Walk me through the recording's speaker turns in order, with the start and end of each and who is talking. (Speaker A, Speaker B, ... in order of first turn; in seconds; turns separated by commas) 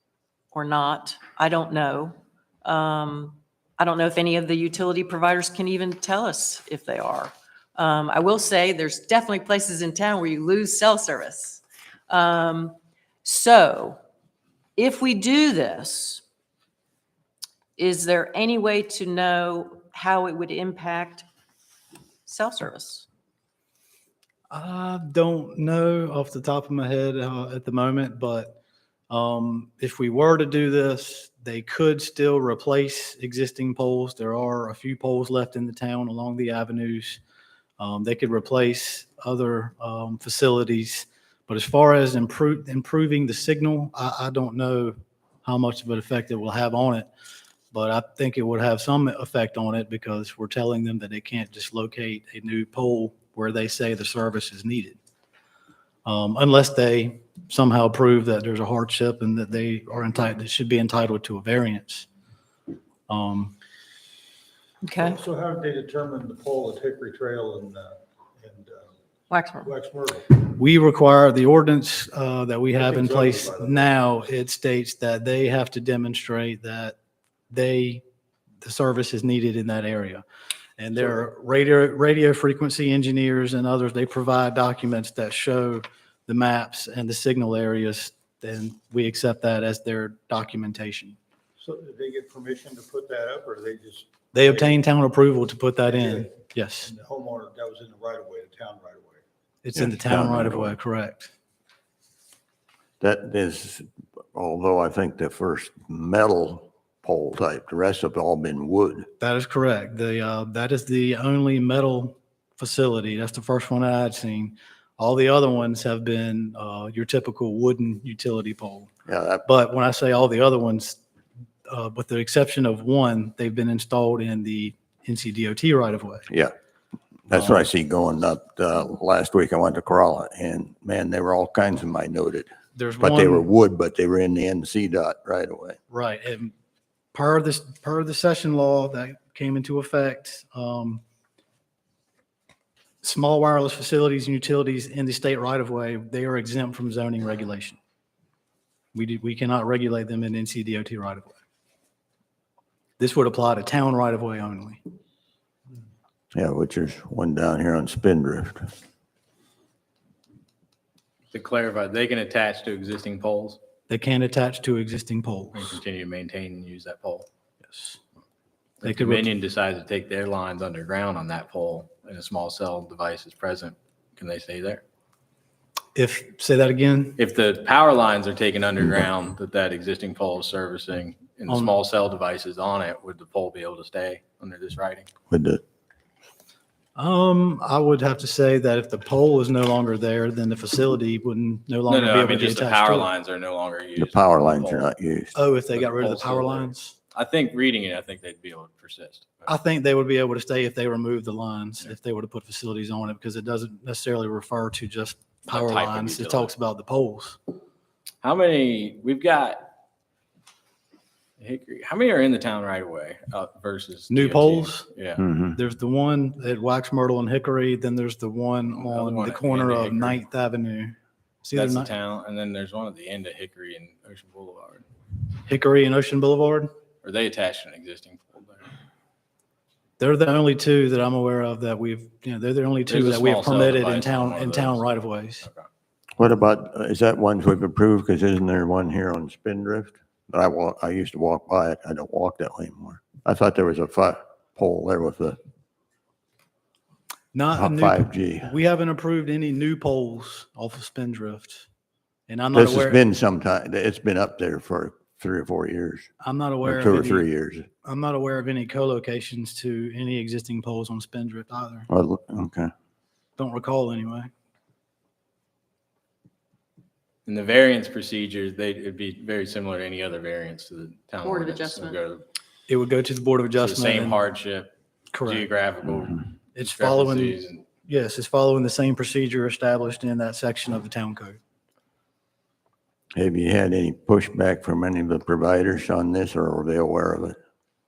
Speaker A: 0.5-14.0, Speaker A: 14.8-16.2, Speaker A: 17.8-21.2, Speaker A: 22.2-23.1, Speaker B: 24.5-28.6, Speaker B: 29.1-37.2, Speaker B: 37.8-47.1, Speaker B: 47.7-55.0, Speaker B: 56.0-62.1, Speaker B: 63.1-63.5, Speaker A: 64.8-65.2, Speaker C: 65.0-68.9, Speaker A: 69.3-69.7, Speaker C: 69.6-70.4, Speaker B: 70.4-77.0, Speaker C: 72.7-73.9, Speaker B: 77.5-78.0, Speaker B: 78.6-80.2, Speaker B: 80.8-91.2, Speaker C: 91.6-94.8, Speaker B: 94.3-96.9, Speaker C: 95.9-99.2, Speaker B: 99.6-101.3, Speaker D: 99.8-100.8, Speaker D: 103.0-109.1, Speaker B: 109.2-118.9, Speaker D: 119.1-119.4, Speaker B: 119.5-121.0, Speaker B: 121.7-126.3, Speaker D: 127.3-135.8, Speaker B: 132.8-133.5, Speaker B: 135.9-136.5, Speaker B: 137.1-141.0, Speaker B: 143.0-147.8, Speaker B: 148.9-151.3, Speaker B: 153.0-154.8, Speaker D: 156.3-158.7, Speaker E: 161.3-163.6, Speaker B: 163.9-165.8, Speaker E: 165.5-167.3, Speaker B: 167.7-168.0, Speaker E: 168.8-174.8, Speaker B: 168.8-169.3, Speaker B: 175.9-177.2, Speaker E: 177.2-185.1, Speaker B: 181.5-181.8, Speaker D: 185.3-185.6, Speaker B: 187.0-193.1, Speaker E: 191.9-194.9, Speaker D: 194.0-195.4, Speaker B: 195.3-197.0, Speaker E: 195.7-199.5, Speaker B: 199.5-207.4, Speaker E: 205.5-206.5, Speaker E: 208.2-209.7, Speaker E: 211.4-215.2, Speaker B: 214.1-214.9, Speaker D: 215.3-215.5, Speaker B: 215.5-221.9, Speaker E: 218.7-220.2, Speaker E: 221.5-224.8, Speaker B: 225.5-226.7, Speaker E: 227.0-228.7, Speaker B: 230.0-235.4, Speaker E: 232.9-234.8, Speaker E: 235.4-235.7, Speaker D: 236.2-245.4, Speaker B: 247.3-251.7, Speaker D: 247.5-248.5, Speaker B: 252.3-253.0, Speaker D: 252.5-256.1, Speaker B: 256.2-257.3, Speaker D: 256.6-257.7, Speaker B: 257.8-261.9, Speaker D: 261.9-262.7, Speaker B: 263.4-264.3, Speaker E: 267.2-272.2, Speaker A: 271.2-272.0, Speaker B: 272.7-274.2, Speaker E: 273.6-277.6, Speaker B: 275.1-275.4, Speaker B: 276.6-281.4, Speaker D: 283.1-287.4